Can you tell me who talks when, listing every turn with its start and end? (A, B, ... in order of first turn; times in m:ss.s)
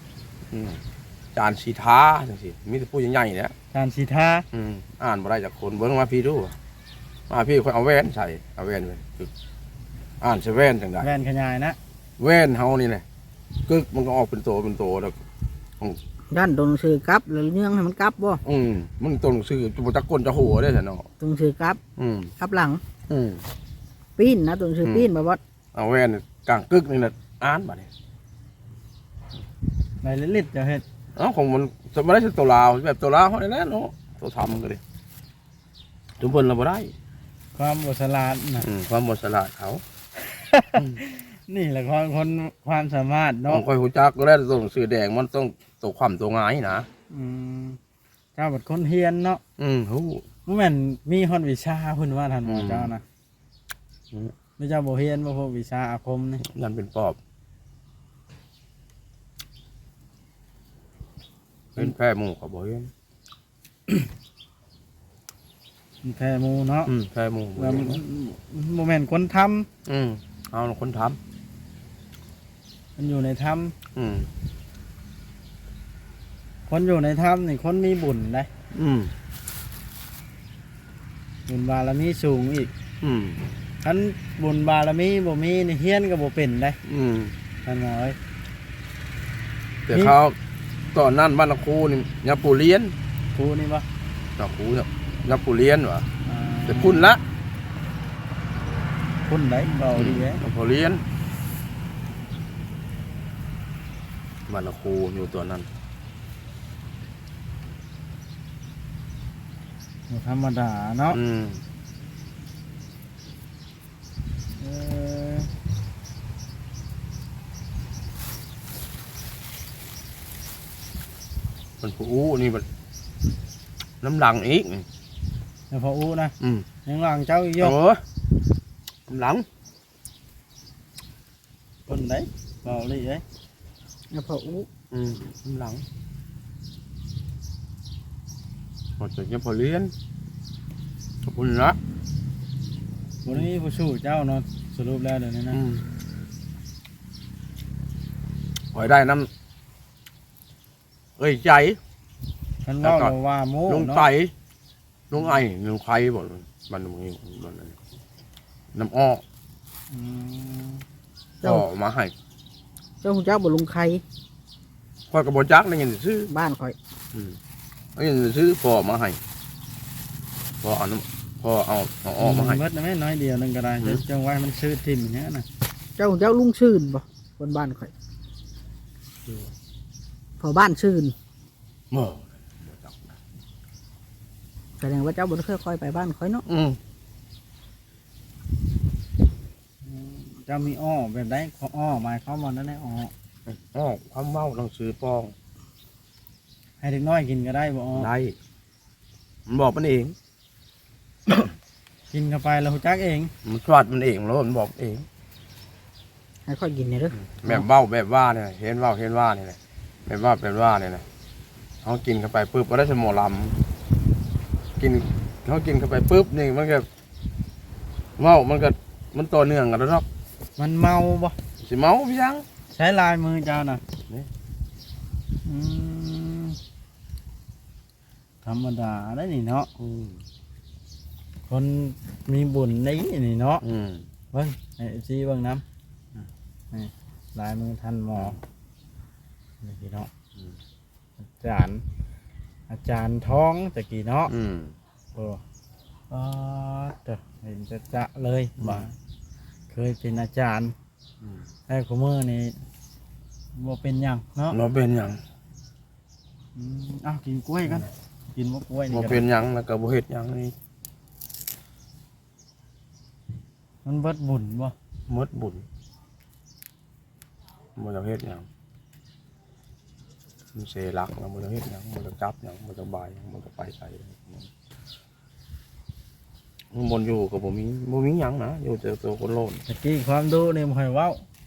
0:00.5-0:00.8 A
0:01.3-0:03.5 A
0:03.7-0:04.4 B
0:04.5-0:06.6 A
0:07.3-0:09.3 A
0:10.2-0:11.1 A
0:11.0-0:11.8 B
0:12.2-0:13.0 A
0:13.6-0:15.2 A
0:16.3-0:18.4 C
0:18.4-0:21.1 A
0:21.2-0:21.8 C
0:22.0-0:22.3 A
0:22.4-0:22.8 C
0:23.1-0:23.4 A
0:24.2-0:25.4 C
0:24.8-0:25.1 A
0:25.7-0:27.9 A
0:30.0-0:30.8 B
0:31.2-0:34.8 A
0:36.2-0:36.9 A
0:37.5-0:38.7 B
0:38.6-0:39.8 A
0:40.2-0:43.6 B
0:40.7-0:41.0 A
0:43.5-0:46.9 A
0:47.1-0:47.8 B
0:48.4-0:49.4 B
0:49.6-0:50.3 A
0:50.4-0:53.0 B
0:52.4-0:52.9 A
0:54.6-0:56.4 B
0:56.4-0:57.2 A
1:01.7-1:02.9 A
1:06.0-1:06.9 B
1:06.8-1:08.0 A
1:07.6-1:09.7 B
1:09.8-1:11.2 A
1:13.0-1:13.7 B
1:13.9-1:14.3 A
1:16.7-1:18.5 B
1:18.7-1:19.1 A
1:21.5-1:22.7 B
1:23.0-1:23.5 A
1:23.8-1:26.8 B
1:26.8-1:27.3 A
1:27.6-1:28.2 B
1:29.9-1:30.4 A
1:29.9-1:30.2 B
1:30.9-1:32.9 A
1:33.3-1:33.8 B
1:34.4-1:36.1 A
1:36.2-1:37.1 B
1:36.6-1:37.2 A
1:39.2-1:40.4 B
1:39.9-1:41.0 A
1:44.5-1:45.7 A
1:50.1-1:51.2 B
1:51.1-1:51.6 A
1:54.6-1:55.5 B
2:01.8-2:02.6 A
2:04.0-2:04.8 A
2:05.7-2:06.3 B
2:06.4-2:06.7 A
2:06.8-2:07.8 B
2:07.6-2:08.0 A
2:09.1-2:09.4 A
2:11.9-2:13.2 B
2:14.1-2:14.7 C
2:14.9-2:15.8 A
2:19.0-2:19.9 A
2:21.2-2:21.8 A
2:23.2-2:25.6 B
2:25.5-2:25.8 A
2:28.7-2:29.3 A
2:31.2-2:31.8 A
2:32.6-2:34.1 B
2:32.8-2:33.1 A
2:33.7-2:34.3 A
2:35.1-2:37.8 A
2:38.7-2:39.2 A
2:39.9-2:40.8 B
2:41.4-2:42.1 A
2:43.0-2:44.0 C
2:45.1-2:46.3 A
2:46.3-2:46.8 C
2:48.0-2:49.2 A
2:50.6-2:52.6 A
2:52.2-2:55.4 B
2:56.0-2:57.9 C
3:00.4-3:01.1 C
3:01.9-3:03.1 A
3:04.8-3:06.4 C
3:06.4-3:06.8 A
3:09.8-3:13.1 B
3:13.5-3:15.3 A
3:16.8-3:18.1 B
3:17.9-3:18.4 A
3:19.5-3:20.2 A
3:21.3-3:21.5 A
3:22.1-3:23.3 B
3:23.4-3:25.0 A
3:26.4-3:27.6 C
3:27.1-3:31.0 A
3:31.8-3:33.6 A
3:34.8-3:36.9 A
3:38.2-3:40.0 A
3:40.6-3:41.3 B
3:41.6-3:42.4 A
3:42.7-3:43.8 B
3:45.4-3:46.6 B
3:48.4-3:49.7 B
3:49.8-3:50.2 A
3:51.5-3:53.6 B
3:53.6-3:54.1 A
3:54.3-3:55.6 B
3:56.7-3:58.4 B
3:59.6-4:00.1 B
4:01.4-4:01.8 B
4:02.7-4:04.3 B
4:04.3-4:04.8 A
4:05.1-4:05.4 B
4:06.1-4:08.9 B
4:08.6-4:08.9 A
4:09.7-4:10.7 B
4:11.7-4:12.6 B
4:13.5-4:14.6 B
4:14.5-4:15.2 A
4:16.6-4:19.2 B
4:18.9-4:20.5 A
4:23.8-4:24.7 B
4:25.1-4:25.6 A
4:27.8-4:28.5 A
4:30.5-4:34.5 A
4:36.7-4:39.6 A
4:39.7-4:41.2 B